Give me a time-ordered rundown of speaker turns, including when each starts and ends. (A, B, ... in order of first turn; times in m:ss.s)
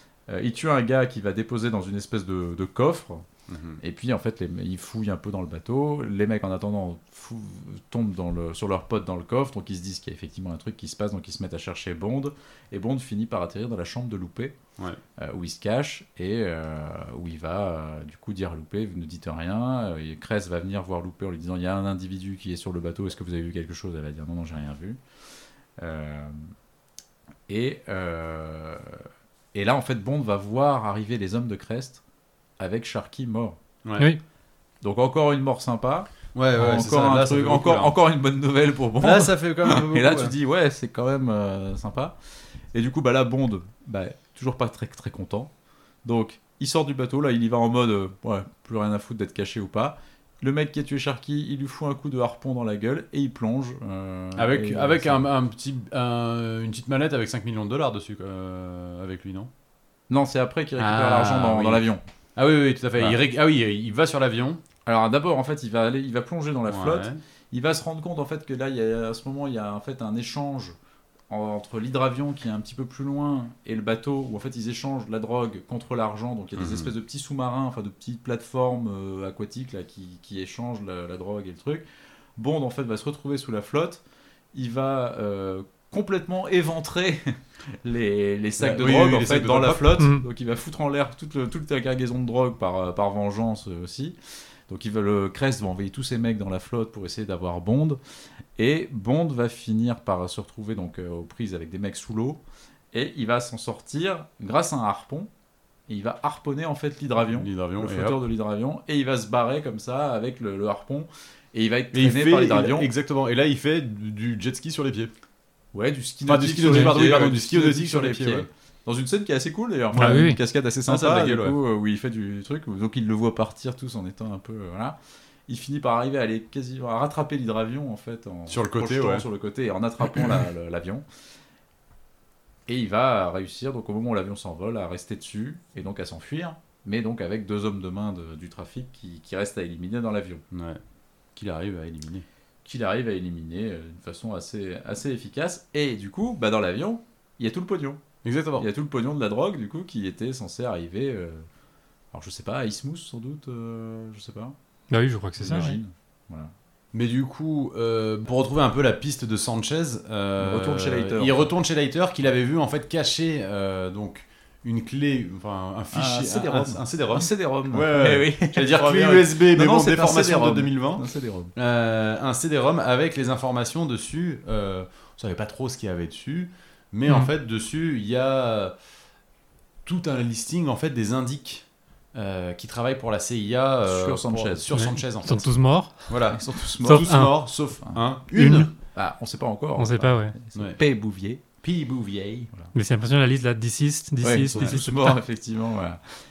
0:00.3-0:03.2 A
0:03.5-0:03.8 B
0:03.8-0:14.6 A
0:15.2-0:25.0 A
0:25.8-0:26.5 A
0:27.5-0:32.0 A
0:32.6-0:33.6 A
0:34.8-0:42.1 A
0:36.3-0:37.9 B
0:39.0-0:40.3 B
0:42.7-0:45.5 A
0:46.0-0:55.2 A
0:54.4-0:59.5 B
1:00.1-1:02.0 A
1:00.8-1:01.8 B
1:02.4-1:04.6 B
1:04.8-1:10.8 A
1:06.7-1:07.2 B
1:11.3-1:21.8 A
1:16.6-1:16.9 B
1:22.4-1:24.0 A
1:24.5-1:34.2 A
1:28.6-1:30.0 B
1:30.0-1:30.2 C
1:34.7-1:38.0 A
1:38.6-1:45.3 A
1:45.9-1:52.9 A
1:47.3-1:48.2 B
1:51.9-1:55.1 B
1:55.7-2:05.0 A
1:56.2-1:58.5 B
1:59.9-2:00.4 C
2:00.9-2:01.6 B
2:05.5-2:11.0 A
2:08.5-2:09.2 B
2:12.7-2:20.4 A
2:20.5-2:20.8 B
2:21.4-2:22.2 B
2:22.6-2:28.0 A
2:28.2-2:28.7 B
2:28.6-2:31.4 A
2:32.1-2:34.5 A
2:34.9-2:35.7 C
2:35.4-2:36.5 A
2:36.9-2:58.7 B
2:40.4-2:41.5 A
2:45.9-2:51.5 A
2:59.8-3:05.5 B
3:03.8-3:04.8 A
3:04.7-3:06.1 C
3:06.1-3:08.7 B
3:06.3-3:07.2 A
3:06.8-3:07.4 C
3:08.3-3:08.7 C
3:08.9-3:11.4 A
3:09.8-3:10.3 C
3:10.5-3:10.8 B
3:11.6-3:12.5 B
3:12.7-3:15.2 C
3:14.2-3:16.0 A